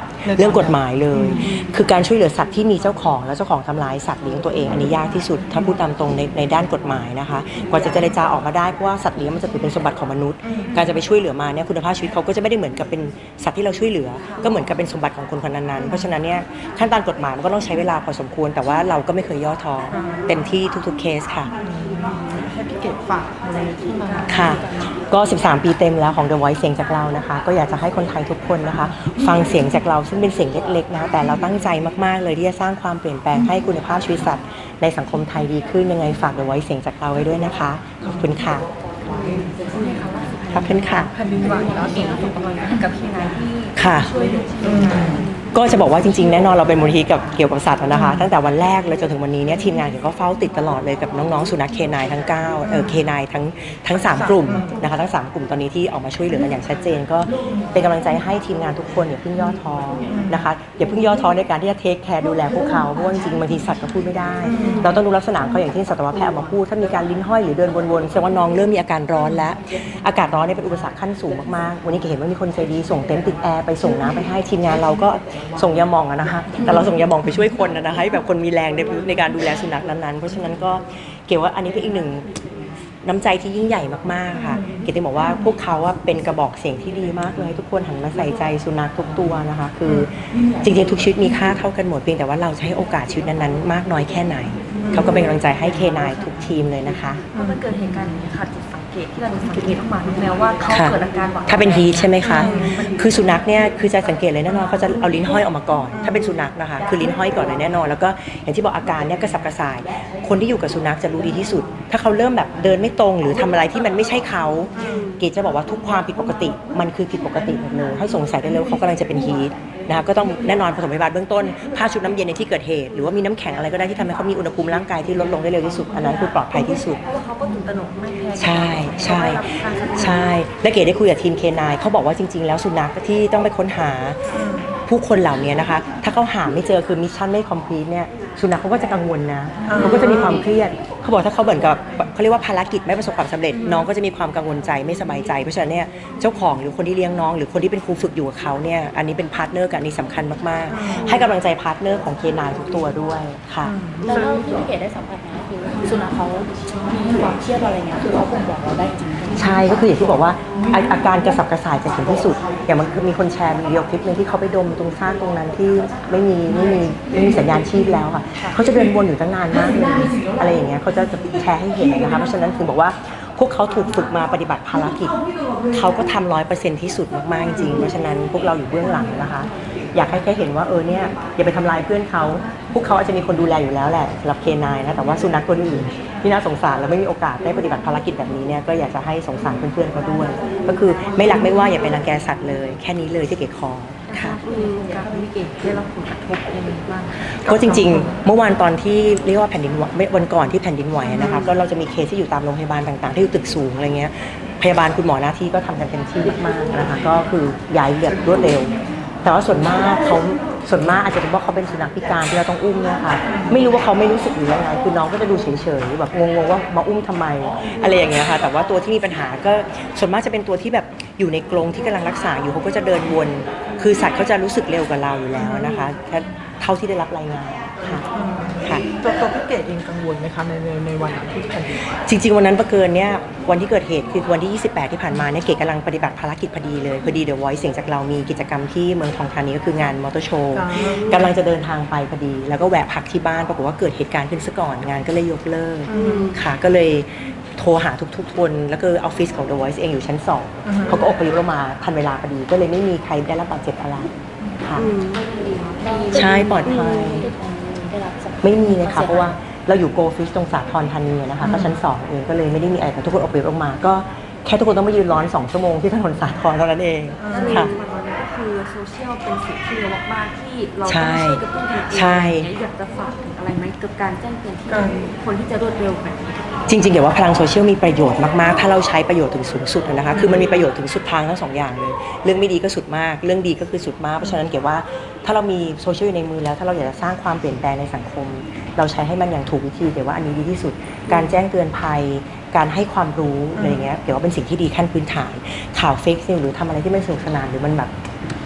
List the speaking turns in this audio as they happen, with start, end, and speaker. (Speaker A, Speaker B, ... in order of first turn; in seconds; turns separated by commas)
Speaker A: 0.2-0.8, Speaker B: 0.3-21.5, Speaker A: 21.6-24.7, Speaker B: 24.3-38.7, Speaker C: 24.4-24.6, Speaker D: 39.2-45.5, Speaker B: 40.5-41.1, Speaker A: 41.2-42.1, Speaker C: 41.7-42.3, Speaker B: 43.8-44.1, Speaker A: 44.7-45.0, Speaker B: 45.5-82.3, Speaker A: 54.1-54.8, Speaker A: 60.1-60.4, Speaker A: 64.5-64.9, Speaker B: 83.0-97.2, Speaker D: 97.3-103.1, Speaker B: 100.7-127.0, Speaker A: 114.8-115.0, Speaker D: 114.9-115.2, Speaker D: 127.0-130.3, Speaker B: 128.3-134.3, Speaker A: 134.4-134.7, Speaker B: 134.9-153.8, Speaker A: 139.7-140.0, Speaker D: 139.8-140.2, Speaker D: 151.0-151.3, Speaker A: 153.7-154.1, Speaker C: 154.1-159.8, Speaker B: 159.3-175.2, Speaker B: 175.7-194.4, Speaker D: 194.1-198.1, Speaker B: 197.2-208.7, Speaker B: 209.2-228.1, Speaker A: 228.2-231.8, Speaker B: 231.9-254.9, Speaker A: 240.6-240.9, Speaker D: 240.9-241.3, Speaker A: 245.9-246.3, Speaker D: 245.9-246.4, Speaker A: 250.7-251.0, Speaker D: 254.8-257.2, Speaker C: 255.8-259.4, Speaker B: 256.1-257.3, Speaker B: 258.4-267.7, Speaker A: 267.2-267.7, Speaker D: 267.3-276.7, Speaker B: 270.9-272.5, Speaker A: 274.7-275.0, Speaker B: 276.7-297.9